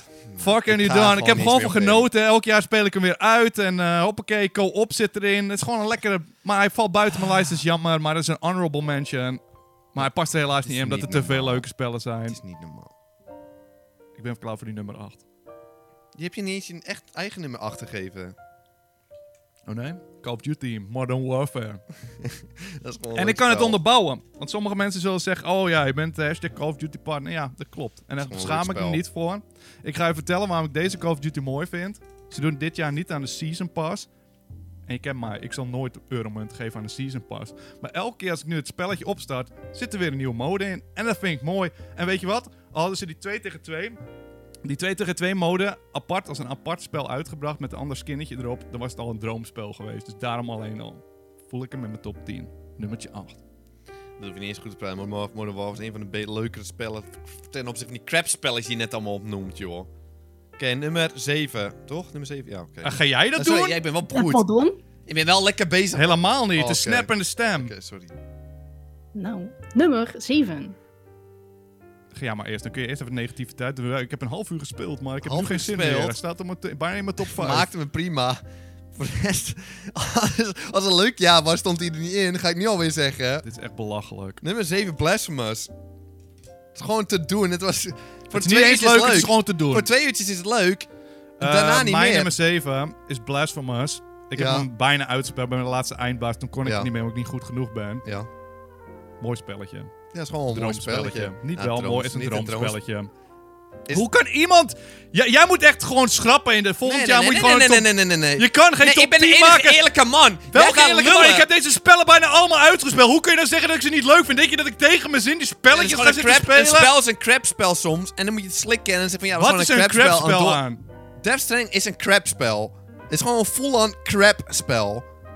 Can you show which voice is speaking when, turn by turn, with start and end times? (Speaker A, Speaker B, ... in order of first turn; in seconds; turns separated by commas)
Speaker A: 0.3-2.1, Speaker B: 0.4-9.4, Speaker B: 9.9-12.4, Speaker A: 10.6-11.7, Speaker A: 12.3-12.9, Speaker B: 14.2-15.2, Speaker A: 16.2-18.4, Speaker B: 19.7-21.8, Speaker A: 22.2-23.8, Speaker B: 23.1-34.1, Speaker A: 28.2-29.0, Speaker B: 34.9-44.0, Speaker B: 44.6-53.4, Speaker A: 54.2-59.9, Speaker A: 60.6-64.4, Speaker B: 62.8-63.8, Speaker C: 64.1-64.8, Speaker A: 65.1-68.2, Speaker B: 65.9-67.7, Speaker C: 69.1-70.8, Speaker B: 72.1-77.7, Speaker A: 75.2-76.2, Speaker A: 77.3-78.4, Speaker A: 78.9-83.5, Speaker B: 83.4-84.4, Speaker A: 84.4-85.7, Speaker A: 86.7-90.9, Speaker B: 88.3-89.9, Speaker A: 91.4-92.3, Speaker B: 91.4-98.0, Speaker A: 94.3-94.7, Speaker A: 96.7-96.9, Speaker B: 99.2-99.9, Speaker A: 100.1-102.8, Speaker B: 100.5-103.1, Speaker B: 103.9-109.8, Speaker A: 106.8-111.5, Speaker B: 110.5-116.9, Speaker A: 115.7-120.6, Speaker B: 119.4-120.8, Speaker A: 121.2-125.1